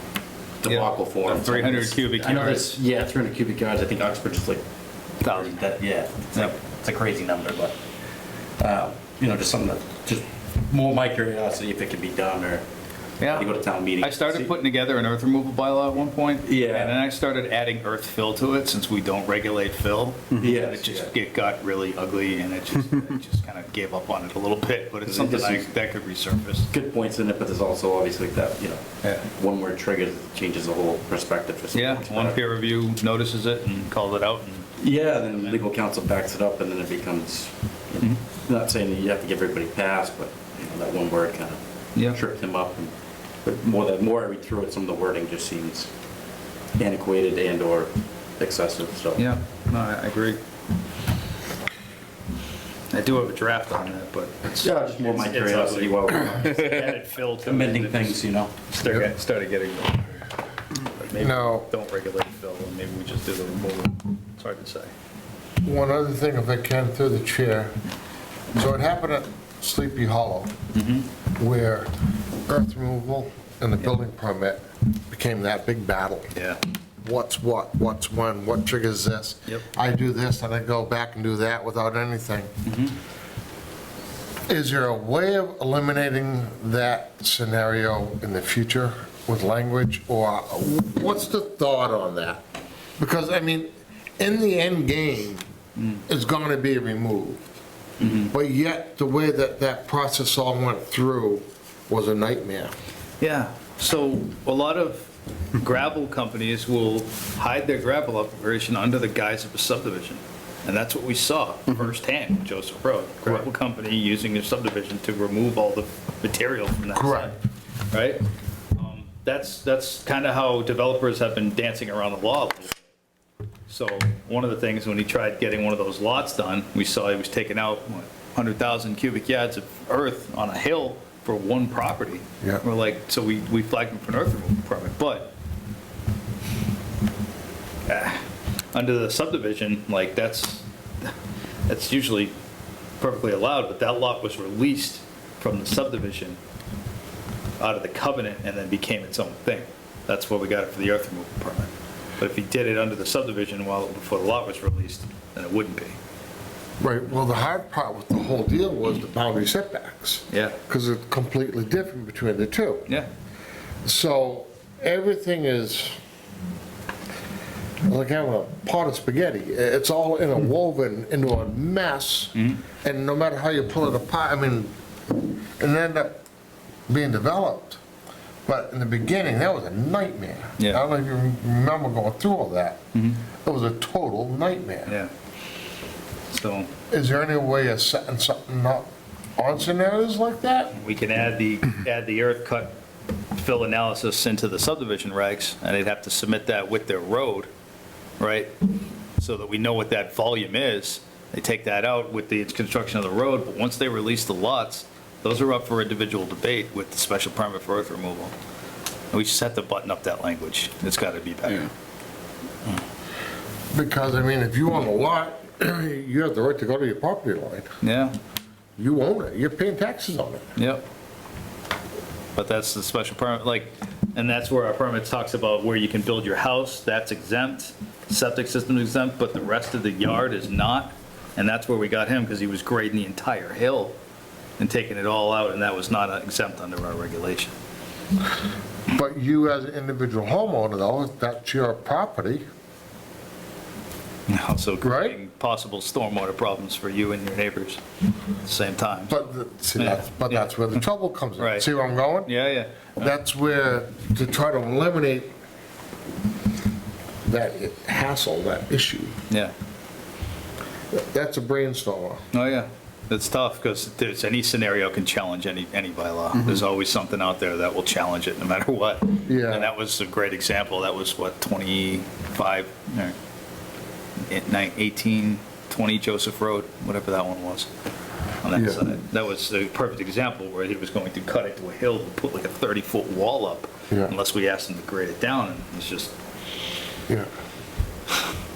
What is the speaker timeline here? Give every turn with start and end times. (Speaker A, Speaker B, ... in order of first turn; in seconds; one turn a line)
Speaker A: 0.6-4.6
Speaker B: 0.7-2.8
Speaker A: 5.2-7.8
Speaker B: 5.2-5.7
Speaker A: 8.6-12.6
Speaker B: 13.2-13.5
Speaker A: 13.3-14.5
Speaker B: 14.0-26.7
Speaker A: 16.4-17.0
Speaker A: 20.4-21.1
Speaker A: 25.1-25.7
Speaker A: 26.7-32.4
Speaker B: 31.7-34.7
Speaker A: 34.8-42.9
Speaker A: 43.4-45.9
Speaker A: 46.8-49.3
Speaker B: 49.2-50.4
Speaker B: 52.9-64.9
Speaker A: 54.5-58.5
Speaker C: 61.1-61.7
Speaker C: 65.6-67.7
Speaker C: 68.5-70.6
Speaker B: 70.7-71.0
Speaker C: 71.4-71.9
Speaker C: 72.5-76.3
Speaker B: 76.3-76.6
Speaker C: 77.0-82.5
Speaker B: 82.7-82.9
Speaker C: 84.5-92.4
Speaker C: 93.0-95.4
Speaker B: 95.8-96.0
Speaker C: 96.1-97.5
Speaker B: 98.0-98.3
Speaker C: 98.1-102.7
Speaker B: 103.2-117.4
Speaker C: 116.9-117.3
Speaker B: 117.9-118.2
Speaker B: 118.8-122.8
Speaker B: 123.7-135.3
Speaker B: 137.9-141.1
Speaker B: 141.7-142.3
Speaker B: 143.0-146.4
Speaker B: 147.6-155.9
Speaker C: 156.8-162.9
Speaker B: 160.3-160.6
Speaker C: 163.8-166.0
Speaker C: 167.8-174.7
Speaker B: 172.3-172.6
Speaker C: 175.6-176.2
Speaker C: 176.9-177.8
Speaker C: 178.4-182.8
Speaker B: 182.9-183.2
Speaker C: 183.4-184.9
Speaker B: 184.8-185.1
Speaker B: 186.3-186.7
Speaker C: 186.9-190.7
Speaker B: 190.7-192.8
Speaker B: 193.3-197.5
Speaker B: 198.2-198.6
Speaker B: 199.2-208.3
Speaker B: 209.1-211.7
Speaker C: 213.7-217.7
Speaker B: 217.8-218.2
Speaker C: 218.8-220.5
Speaker B: 220.6-220.9
Speaker B: 222.3-234.0
Speaker B: 234.6-237.5
Speaker C: 238.9-242.4
Speaker B: 244.3-247.8
Speaker C: 244.8-245.2
Speaker B: 248.4-249.1
Speaker C: 249.1-252.3
Speaker B: 249.8-250.7
Speaker B: 251.4-251.7
Speaker B: 252.2-253.1
Speaker C: 253.0-255.3
Speaker C: 257.2-259.1
Speaker C: 260.9-262.2
Speaker B: 262.3-273.1
Speaker C: 269.2-269.7
Speaker B: 274.3-277.7
Speaker B: 278.4-286.1
Speaker C: 278.5-278.8